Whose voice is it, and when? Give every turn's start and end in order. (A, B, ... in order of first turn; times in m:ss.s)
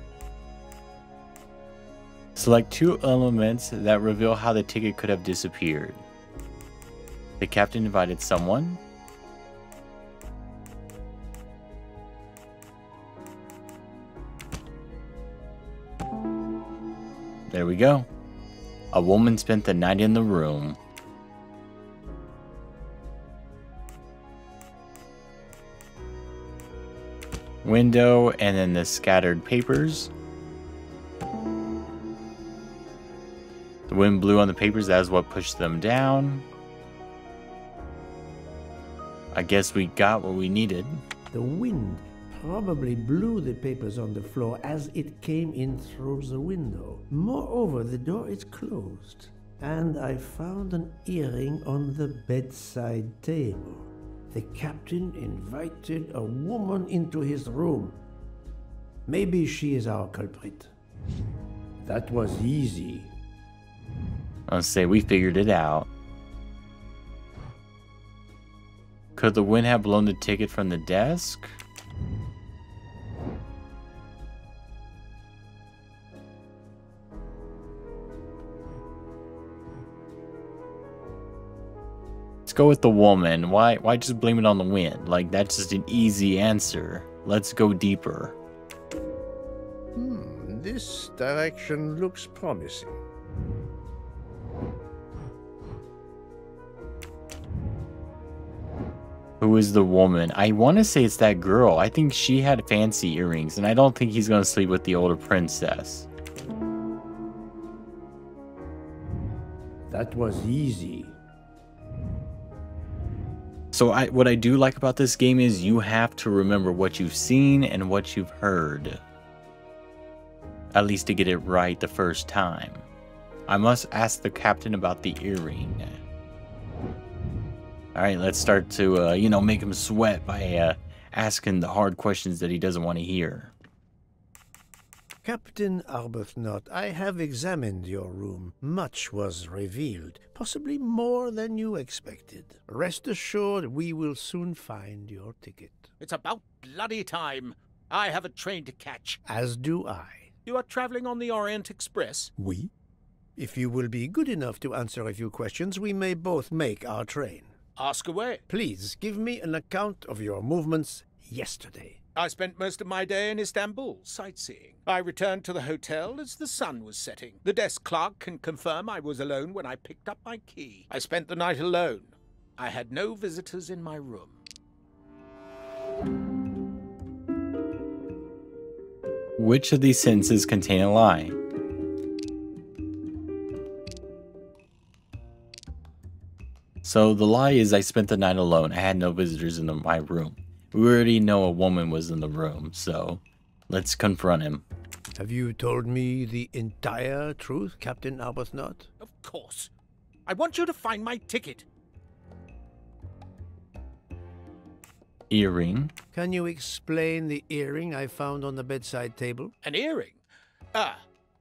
0:02.4-0:06.0 A
0:07.4-0:08.8 A
0:17.5-0:18.1 A
0:18.9-0:20.8 A
0:27.6-0:30.1 A
0:33.9-0:36.4 A
0:39.3-0:41.0 A
0:41.3-0:58.0 B
0:59.1-1:00.7 B
1:01.8-1:03.1 B
1:04.5-1:05.9 A
1:09.2-1:11.6 A
1:22.4-1:28.4 A
1:29.9-1:33.0 B
1:39.4-1:46.1 A
1:49.8-1:51.2 B
1:53.7-1:59.0 A
2:00.7-2:02.8 A
2:03.5-2:06.0 A
2:07.9-2:13.5 A
2:15.2-2:25.9 B
2:26.0-2:29.2 C
2:29.2-2:30.3 B
2:30.4-2:32.3 C
2:32.4-2:32.7 B
2:33.4-2:37.5 B
2:37.8-2:38.4 C
2:38.5-2:42.0 B
2:42.2-2:54.4 C
2:59.4-3:01.4 A
3:06.8-3:14.6 A
3:15.1-3:18.9 B
3:19.0-3:19.7 C
3:20.2-3:21.6 C
3:25.3-3:25.9 A
3:26.1-3:29.5 B
3:29.6-3:30.2 C
3:30.7-3:31.0 C